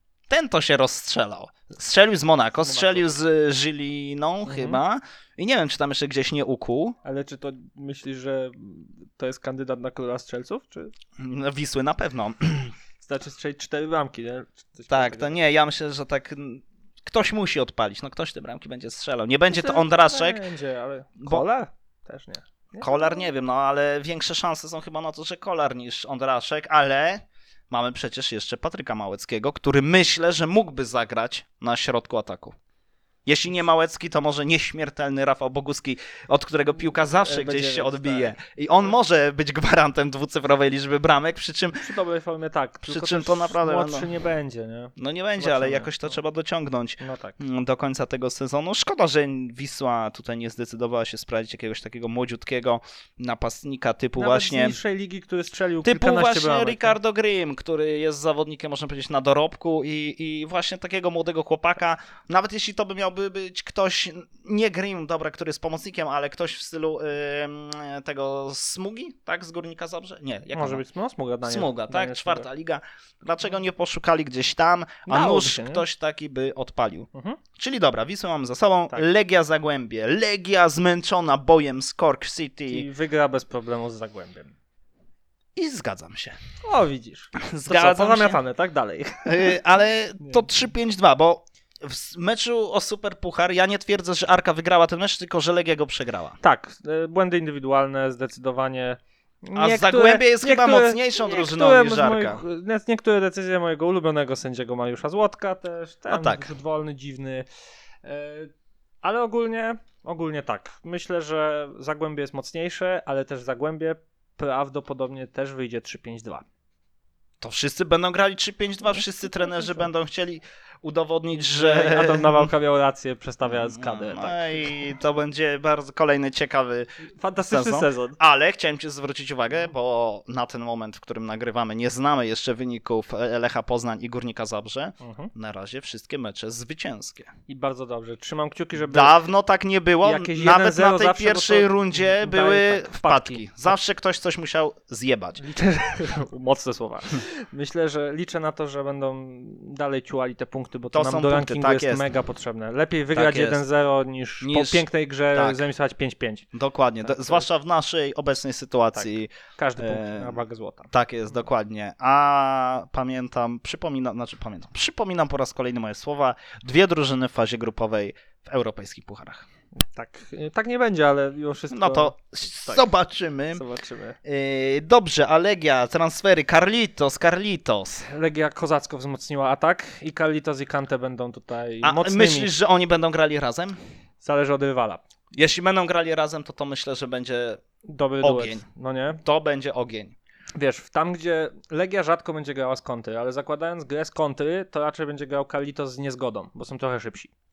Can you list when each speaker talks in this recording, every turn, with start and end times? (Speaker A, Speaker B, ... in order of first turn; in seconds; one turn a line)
Speaker A: 0.3-7.0
Speaker B: 2.6-3.1
Speaker B: 4.5-4.8
Speaker B: 7.0-10.9
Speaker A: 11.2-12.7
Speaker B: 13.0-15.3
Speaker A: 14.9-20.4
Speaker B: 19.5-23.2
Speaker A: 21.2-21.4
Speaker A: 22.8-32.5
Speaker A: 33.2-41.8
Speaker B: 37.2-38.3
Speaker B: 41.8-46.1
Speaker A: 42.8-44.1
Speaker A: 45.0-54.8
Speaker B: 47.0-47.4
Speaker B: 54.2-57.0
Speaker A: 55.8-70.8
Speaker B: 70.5-72.5
Speaker A: 71.4-82.9
Speaker B: 75.0-75.8
Speaker B: 77.1-77.4
Speaker B: 82.7-84.5
Speaker A: 85.5-86.4
Speaker B: 86.6-89.5
Speaker A: 87.4-88.4
Speaker A: 89.2-96.4
Speaker B: 96.4-107.5
Speaker A: 99.5-102.4
Speaker A: 106.1-106.5
Speaker B: 108.0-108.5
Speaker B: 109.0-116.4
Speaker A: 117.4-122.5
Speaker B: 121.5-124.7
Speaker A: 123.5-126.9
Speaker B: 127.2-128.2
Speaker A: 127.5-137.3
Speaker B: 135.0-135.3
Speaker B: 137.5-139.1
Speaker A: 138.8-145.4
Speaker B: 140.0-143.7
Speaker B: 145.4-156.4
Speaker A: 150.9-152.1
Speaker A: 153.1-153.6
Speaker A: 154.4-155.6
Speaker A: 156.5-160.4
Speaker B: 157.0-157.4
Speaker B: 158.9-160.9
Speaker A: 160.9-169.4
Speaker B: 169.8-172.1
Speaker A: 171.7-173.6
Speaker B: 173.5-174.2
Speaker A: 174.2-178.1
Speaker B: 178.0-182.5
Speaker A: 181.8-183.8
Speaker B: 184.2-185.0
Speaker A: 185.3-187.6
Speaker B: 187.9-189.2
Speaker A: 188.2-188.6
Speaker A: 189.2-190.1
Speaker B: 190.5-197.3